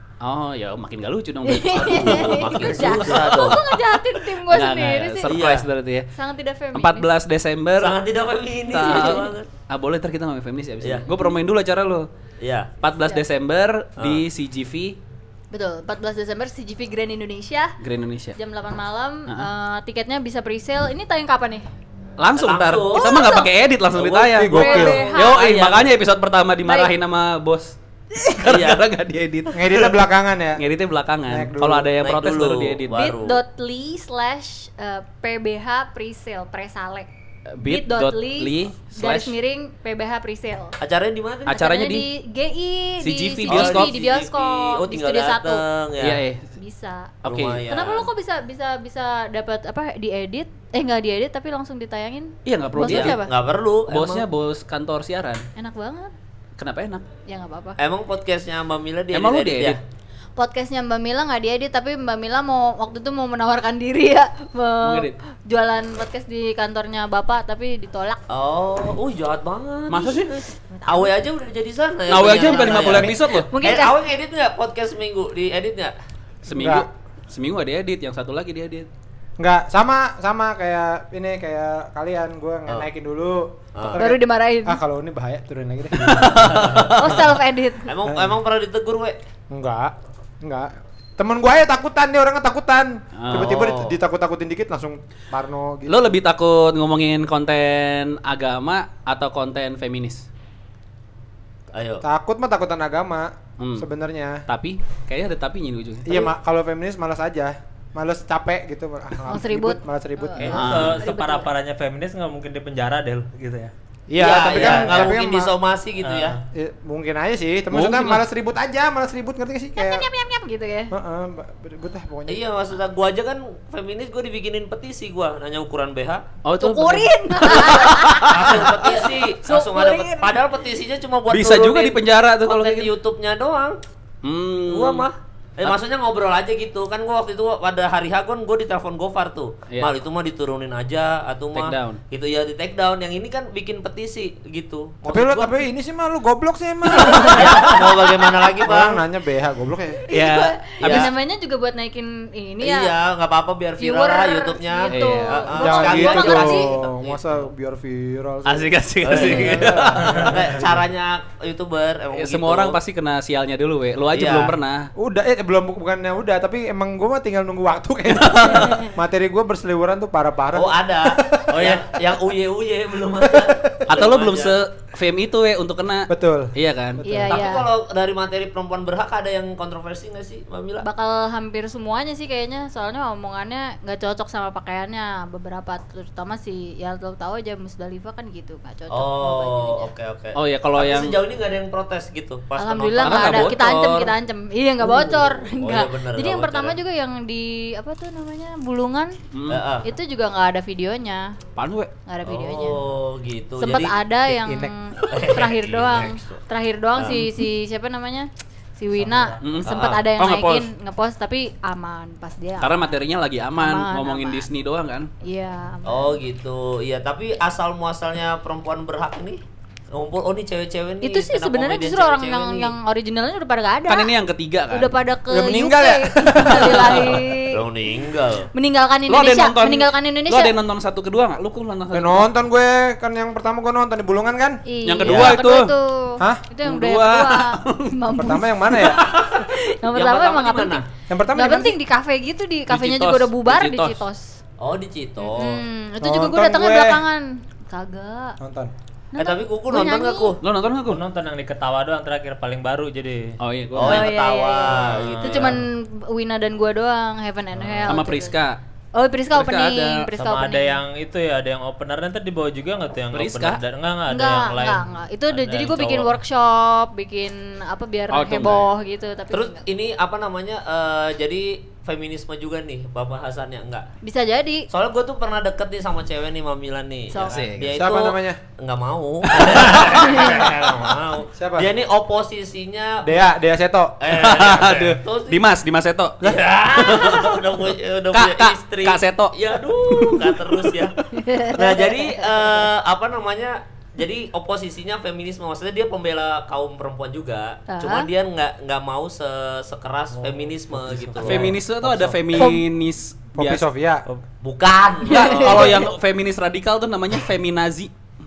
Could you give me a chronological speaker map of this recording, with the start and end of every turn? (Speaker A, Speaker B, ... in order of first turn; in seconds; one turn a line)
Speaker A: 0.2-3.3
Speaker B: 1.4-5.3
Speaker C: 1.7-3.6
Speaker A: 4.3-6.1
Speaker C: 5.2-5.7
Speaker B: 6.1-7.1
Speaker A: 6.7-8.0
Speaker C: 7.8-9.5
Speaker A: 8.7-12.1
Speaker B: 8.8-9.3
Speaker C: 12.4-12.7
Speaker A: 12.8-15.0
Speaker C: 14.0-14.2
Speaker B: 15.5-17.8
Speaker A: 17.8-18.4
Speaker B: 18.4-21.7
Speaker A: 22.2-27.8
Speaker C: 22.4-23.2
Speaker B: 22.9-23.5
Speaker C: 24.1-25.9
Speaker D: 24.3-25.0
Speaker B: 24.5-25.4
Speaker B: 26.7-26.9
Speaker B: 28.2-28.4
Speaker A: 28.3-29.6
Speaker C: 28.5-28.9
Speaker D: 29.6-30.6
Speaker C: 29.7-30.0
Speaker A: 30.6-33.0
Speaker D: 31.3-31.9
Speaker C: 32.0-33.4
Speaker B: 32.9-37.1
Speaker A: 37.5-39.4
Speaker B: 37.6-40.8
Speaker C: 40.8-41.6
Speaker A: 41.5-42.1
Speaker B: 41.5-45.6
Speaker A: 43.0-43.9
Speaker C: 43.5-46.2
Speaker A: 46.0-46.5
Speaker B: 46.6-47.2
Speaker C: 47.2-48.1
Speaker A: 47.2-47.6
Speaker B: 47.7-53.3
Speaker A: 52.5-53.3
Speaker C: 52.8-54.3
Speaker A: 53.9-55.5
Speaker B: 55.6-56.1
Speaker A: 56.6-57.1
Speaker B: 57.3-57.8
Speaker C: 57.8-59.8
Speaker A: 59.1-59.8
Speaker B: 60.4-68.2
Speaker A: 64.8-65.2
Speaker C: 68.3-70.3
Speaker A: 69.9-70.4
Speaker C: 70.8-75.9
Speaker A: 72.1-73.5
Speaker B: 72.2-74.0
Speaker A: 76.5-78.9
Speaker D: 76.5-76.9
Speaker D: 79.4-86.3
Speaker C: 83.8-84.1
Speaker B: 84.0-84.8
Speaker A: 86.0-87.2
Speaker C: 86.2-87.2
Speaker B: 86.9-87.9
Speaker C: 87.9-89.2
Speaker D: 88.1-88.3
Speaker D: 89.5-96.0
Speaker A: 93.2-93.5
Speaker C: 93.3-94.0
Speaker A: 95.9-100.3
Speaker C: 101.7-102.0
Speaker D: 102.0-104.4
Speaker A: 103.6-103.9
Speaker A: 104.5-106.2
Speaker D: 106.1-110.6
Speaker B: 109.3-111.5
Speaker E: 110.5-113.7
Speaker A: 110.5-111.0
Speaker D: 114.1-115.5
Speaker C: 114.2-116.4
Speaker E: 114.5-115.1
Speaker E: 116.0-116.4
Speaker D: 116.5-120.1
Speaker A: 117.7-118.2
Speaker B: 119.8-120.9
Speaker D: 120.9-122.4
Speaker C: 122.3-126.2
Speaker A: 126.4-128.7
Speaker B: 126.6-130.4
Speaker C: 128.3-133.8
Speaker A: 131.3-132.9
Speaker A: 134.2-135.1
Speaker C: 134.7-145.6
Speaker A: 141.5-142.0
Speaker D: 145.1-148.1
Speaker C: 147.0-149.0
Speaker D: 148.7-150.0
Speaker B: 150.1-152.9
Speaker A: 150.1-151.1
Speaker C: 150.8-151.1
Speaker C: 152.6-157.5
Speaker B: 153.8-156.7
Speaker A: 154.9-156.4
Speaker D: 155.6-160.8
Speaker A: 158.4-160.3
Speaker C: 159.1-162.8
Speaker E: 160.0-160.3
Speaker A: 162.1-164.9
Speaker C: 164.1-164.5
Speaker D: 165.0-171.5
Speaker A: 168.1-168.8
Speaker B: 168.6-168.9
Speaker C: 170.5-174.6
Speaker E: 171.5-171.8
Speaker A: 173.9-177.0
Speaker D: 176.1-177.4
Speaker B: 177.0-177.7
Speaker C: 177.3-180.9
Speaker B: 180.8-189.9
Speaker C: 188.9-194.1
Speaker A: 190.3-191.2
Speaker B: 192.6-199.1
Speaker A: 193.0-193.8
Speaker C: 194.8-196.8
Speaker A: 199.3-199.6
Speaker C: 199.5-199.9
Speaker B: 199.8-201.3
Speaker A: 201.6-201.9
Speaker B: 202.1-202.8
Speaker C: 202.2-203.9
Speaker B: 203.6-208.3
Speaker C: 205.1-206.3
Speaker C: 207.0-207.2
Speaker B: 208.8-212.9
Speaker E: 209.0-209.4
Speaker A: 209.4-210.7
Speaker C: 209.7-210.0
Speaker A: 212.6-215.1
Speaker B: 213.6-214.5
Speaker B: 215.2-216.2
Speaker C: 215.8-219.4
Speaker C: 219.9-222.8
Speaker B: 221.0-224.1
Speaker A: 223.9-224.9
Speaker B: 224.7-227.6
Speaker D: 225.3-227.3
Speaker A: 226.4-226.8
Speaker C: 227.5-228.5
Speaker B: 228.5-230.6
Speaker A: 229.1-232.3
Speaker D: 231.9-235.3
Speaker B: 234.7-244.4
Speaker A: 234.8-235.8
Speaker A: 236.6-238.1
Speaker D: 238.1-239.0
Speaker C: 239.9-240.8
Speaker D: 241.1-241.8
Speaker A: 242.7-244.0
Speaker C: 244.6-245.6
Speaker B: 245.2-248.4
Speaker D: 246.0-247.0
Speaker D: 248.4-248.7
Speaker B: 249.1-250.4
Speaker C: 249.2-250.4
Speaker A: 250.4-251.0
Speaker E: 250.9-253.4
Speaker A: 253.4-254.1
Speaker C: 253.8-255.6
Speaker B: 253.8-258.4
Speaker E: 254.8-255.6
Speaker E: 257.6-257.9
Speaker A: 257.9-258.6
Speaker B: 258.9-260.8
Speaker A: 259.3-260.1
Speaker E: 260.2-264.9
Speaker A: 263.1-263.6
Speaker B: 264.1-269.6
Speaker C: 265.3-265.9
Speaker E: 265.6-266.0
Speaker A: 268.1-268.7
Speaker C: 269.3-273.9
Speaker B: 274.0-274.7
Speaker C: 274.7-283.2
Speaker B: 277.1-277.5
Speaker A: 277.1-277.7
Speaker D: 277.7-278.4
Speaker A: 279.4-280.5
Speaker E: 279.8-280.9
Speaker B: 280.0-280.4
Speaker D: 281.4-281.7
Speaker D: 283.0-283.9
Speaker C: 284.0-285.4
Speaker A: 284.1-287.4
Speaker C: 286.2-291.0
Speaker A: 288.1-291.2
Speaker B: 291.1-292.4
Speaker C: 291.5-302.2
Speaker B: 297.7-298.1
Speaker E: 300.1-302.1
Speaker A: 301.2-303.6
Speaker B: 302.4-302.6
Speaker D: 303.4-304.1
Speaker C: 304.4-305.9
Speaker A: 305.1-307.9
Speaker B: 305.1-305.9